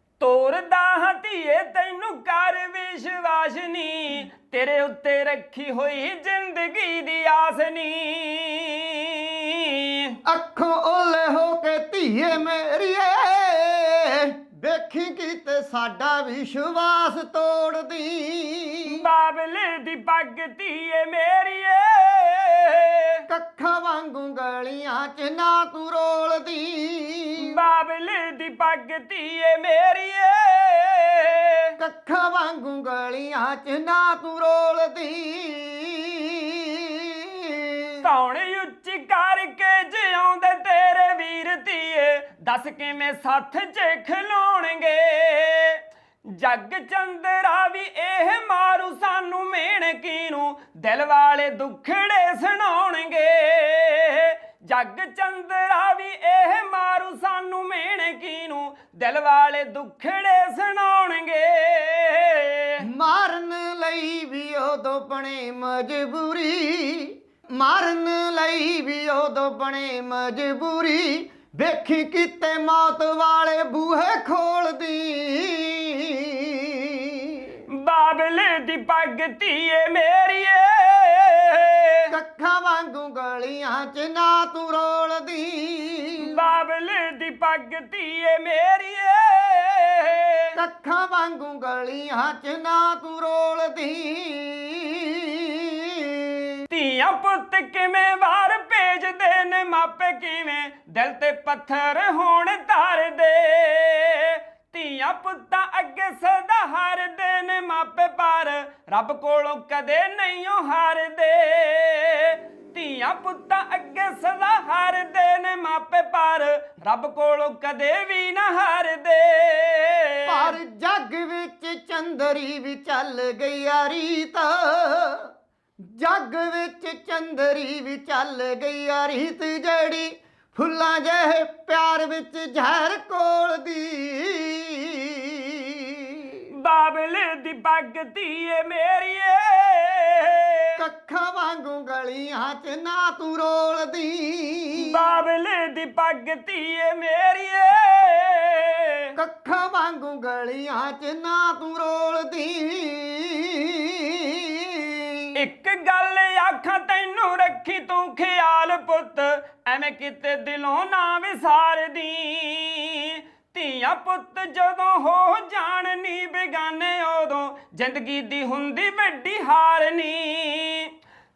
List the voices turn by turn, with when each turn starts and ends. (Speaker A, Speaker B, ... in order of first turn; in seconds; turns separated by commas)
Speaker A: 0.2-10.1, Speaker B: 10.2-19.1, Speaker A: 18.9-23.2, Speaker B: 23.3-27.6, Speaker A: 27.4-31.7, Speaker B: 31.8-38.0, Speaker A: 38.0-62.8, Speaker B: 62.8-77.6, Speaker A: 77.7-82.1, Speaker B: 82.1-86.4, Speaker A: 86.2-90.5, Speaker B: 90.5-96.6, Speaker A: 96.7-120.5, Speaker B: 120.2-136.4, Speaker A: 136.6-140.8, Speaker B: 140.8-145.0, Speaker A: 144.8-149.1, Speaker B: 149.2-155.3, Speaker A: 155.3-170.9